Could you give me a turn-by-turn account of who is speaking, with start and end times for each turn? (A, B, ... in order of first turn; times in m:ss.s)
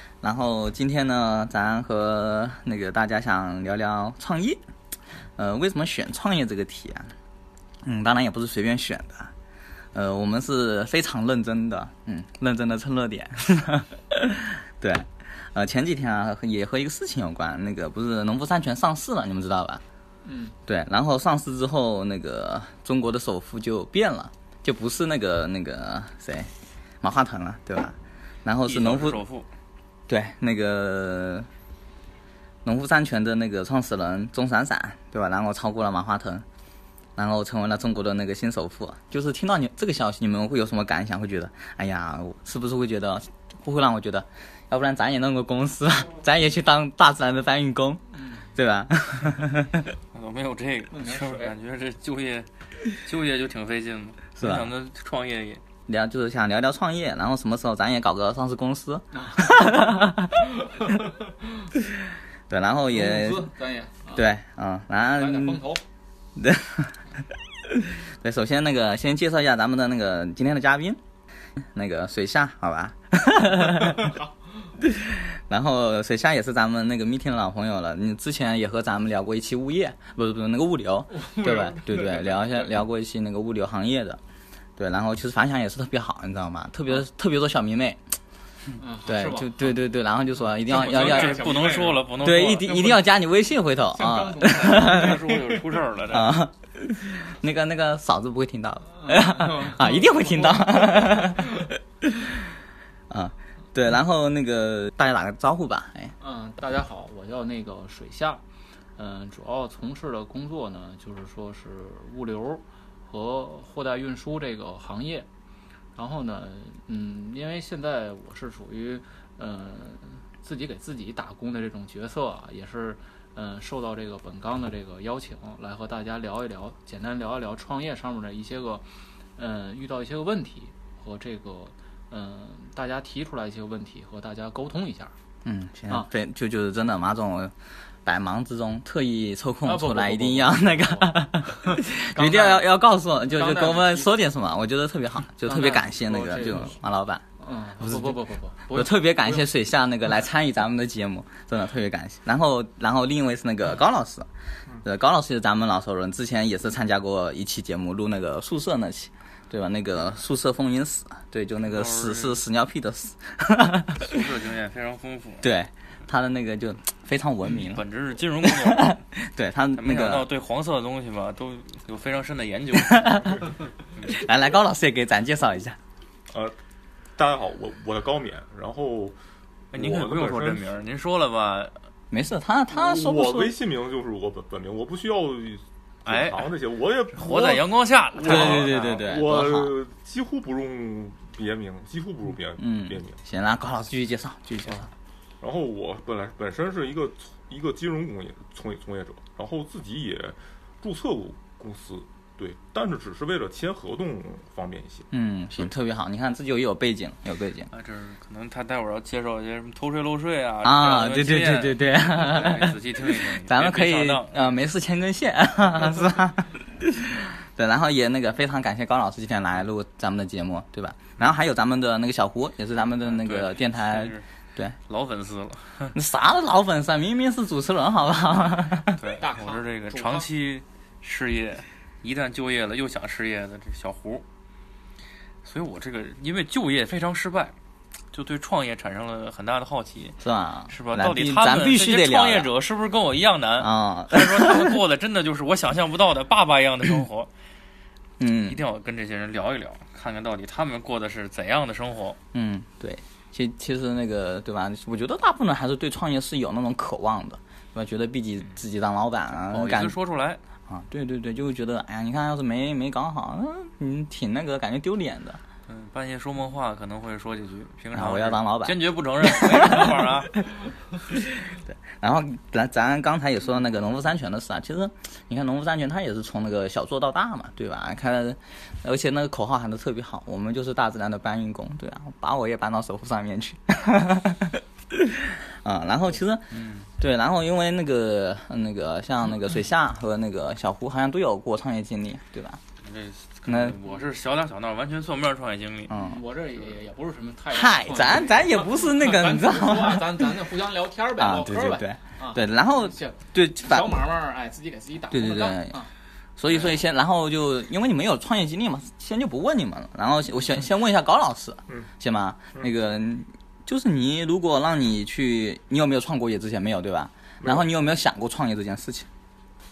0:00.2-0:04.6 A
0:05.4-0:07.1 A
0:07.8-0:09.3 A
0:09.9-0:19.8 A
0:20.2-0:20.5 B
0:20.6-0:26.5 A
0:27.0-0:29.2 A
0:28.6-0:29.5 C
0:30.1-0:31.5 A
0:32.6-0:36.4 A
0:37.2-0:49.9 A
0:48.1-0:48.4 B
0:50.1-0:55.6 C
0:50.9-0:51.5 B
0:54.4-0:54.7 A
0:55.9-1:00.5 A
0:59.1-1:01.7 B
1:02.5-1:03.5 A
1:02.9-1:04.2 B
1:04.1-1:05.6 A
1:05.1-1:05.8 B
1:06.4-1:11.0 A
1:11.6-1:14.1 A
1:13.8-1:14.3 B
1:14.8-1:24.2 A
1:21.1-1:22.7 B
1:24.8-1:28.0 A
1:28.8-1:29.8 B
1:29.0-1:31.5 A
1:30.6-1:33.0 B
1:30.7-1:32.8 C
1:32.2-1:35.2 A
1:33.9-1:35.8 B
1:34.6-1:36.3 C
1:36.1-1:42.4 A
1:39.0-1:41.6 B
1:43.1-1:46.1 A
1:46.2-1:48.4 B
1:49.0-1:55.3 B
1:55.9-2:08.8 B
2:09.4-2:15.1 B
2:15.4-2:17.5 A
2:18.0-2:27.2 A
2:19.6-2:22.7 B
2:23.3-2:24.1 B
2:25.4-2:26.8 B
2:27.4-2:29.5 B
2:27.8-2:28.2 A
2:28.7-2:34.3 A
2:34.8-2:44.2 A
2:41.7-2:42.4 C
2:44.0-2:45.4 C
2:45.4-2:47.8 A
2:47.4-2:49.0 C
2:48.4-2:50.3 A
2:49.8-2:54.2 C
2:52.8-2:53.5 A
2:54.0-2:55.8 A
2:56.3-2:56.6 D
2:57.2-2:59.2 D
2:59.7-3:01.7 C
2:59.7-3:00.7 D
3:02.1-3:03.5 A
3:02.7-3:07.6 D
3:06.0-3:06.5 C
3:07.1-3:09.0 C
3:08.2-3:13.2 D
3:08.2-3:09.7 A
3:12.6-3:14.9 A
3:15.4-3:25.7 D
3:25.1-3:27.7 A
3:27.7-3:34.6 C
3:30.6-3:44.8 A
3:43.0-3:44.2 C
3:44.9-3:45.9 C
3:45.9-3:49.0 A
3:49.0-3:54.2 C
3:49.2-3:50.3 B
3:55.4-3:57.5 C
3:58.1-4:00.2 C
4:00.2-4:02.5 A
4:00.7-4:07.3 C
4:03.6-4:04.8 A
4:08.2-4:08.6 A
4:08.5-4:12.2 C
4:12.3-4:20.0 A
4:19.5-4:20.4 C
4:20.7-4:25.4 A
4:25.7-4:30.4 C
4:27.9-4:30.1 A
4:31.1-4:52.6 A
4:46.5-4:46.9 C
4:52.8-4:56.0 C
4:53.5-4:53.8 A
4:55.9-4:56.2 A
4:55.9-5:05.9 B
4:57.5-5:00.3 A
5:01.2-5:04.0 A
5:05.1-5:05.8 A
5:06.4-5:19.1 A